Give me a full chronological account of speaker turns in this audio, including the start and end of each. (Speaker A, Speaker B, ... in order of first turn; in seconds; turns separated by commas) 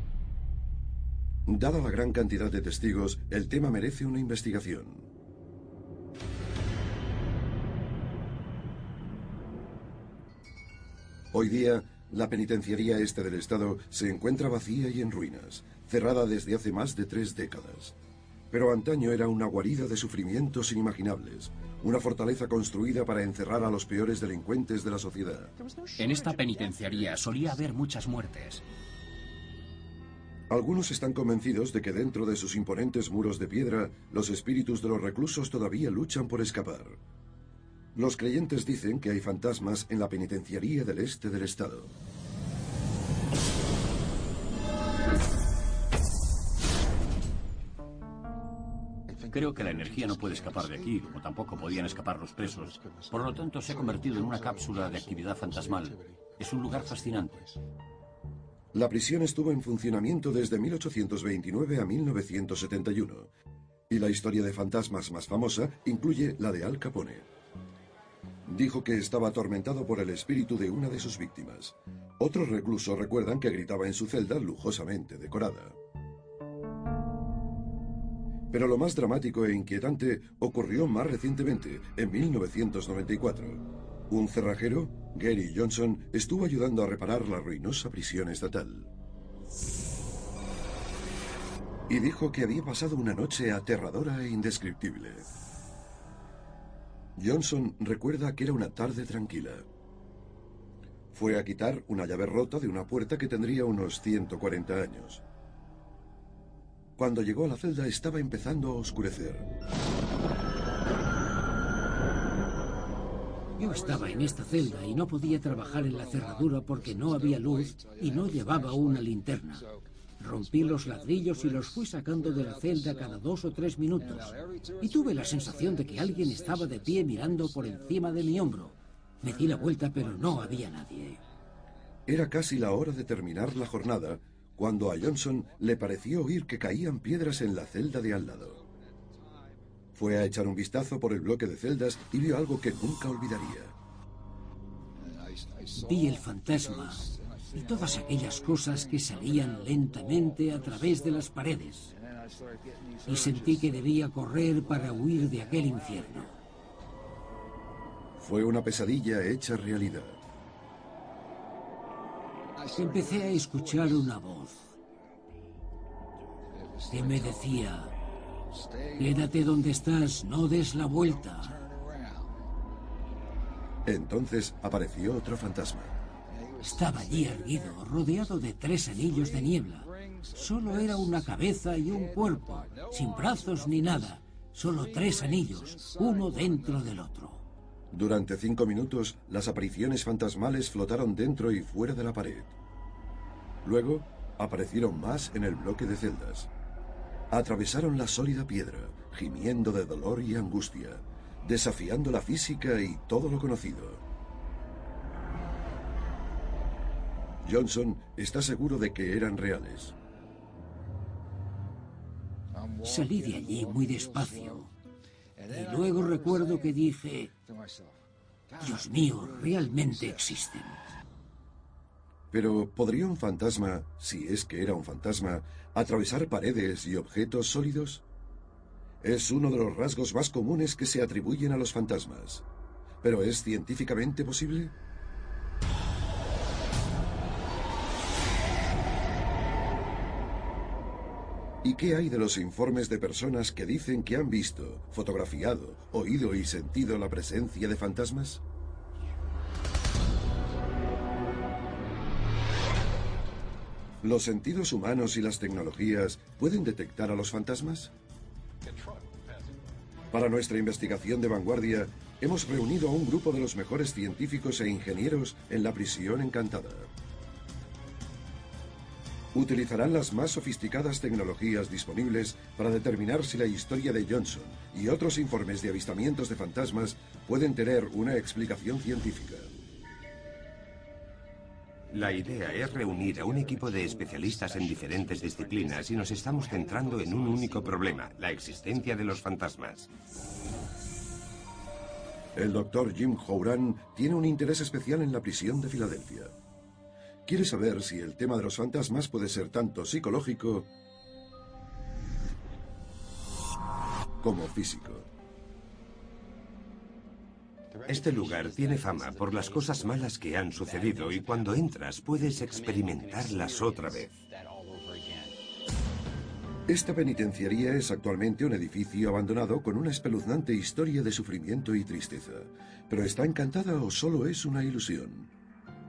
Speaker A: 1.4-5.1, Speaker A: 11.3-17.9, Speaker A: 18.5-25.5, Speaker B: 26.0-28.6, Speaker A: 30.5-37.0, Speaker A: 37.9-41.9, Speaker C: 49.3-57.5, Speaker A: 58.7-63.3, Speaker A: 63.9-67.3, Speaker A: 68.4-75.8, Speaker A: 78.5-88.9, Speaker A: 91.9-95.3, Speaker A: 97.2-99.7, Speaker A: 101.1-105.2, Speaker A: 107.0-109.5, Speaker D: 113.6-119.7, Speaker D: 120.2-131.2, Speaker A: 132.1-138.6, Speaker A: 139.9-143.7, Speaker D: 145.8-151.9, Speaker D: 153.1-156.3, Speaker A: 158.2-160.2, Speaker D: 162.7-164.7, Speaker D: 166.9-167.9, Speaker D: 169.0-171.6, Speaker A: 173.8-175.9, Speaker D: 176.6-187.4, Speaker A: 187.9-192.5, Speaker A: 193.6-196.5, Speaker A: 197.3-204.0, Speaker A: 207.4-209.9, Speaker D: 212.8-214.7, Speaker D: 215.5-217.3, Speaker D: 218.6-220.8, Speaker A: 222.3-228.0, Speaker A: 229.0-232.4, Speaker A: 233.0-234.7, Speaker A: 241.6-248.4, Speaker A: 254.0-257.9, Speaker A: 260.1-266.9, Speaker A: 269.3-279.5, Speaker E: 281.9-289.9, Speaker A: 292.3-296.3, Speaker A: 297.2-300.7, Speaker A: 304.2-305.1, Speaker E: 307.9-314.2, Speaker A: 316.7-325.3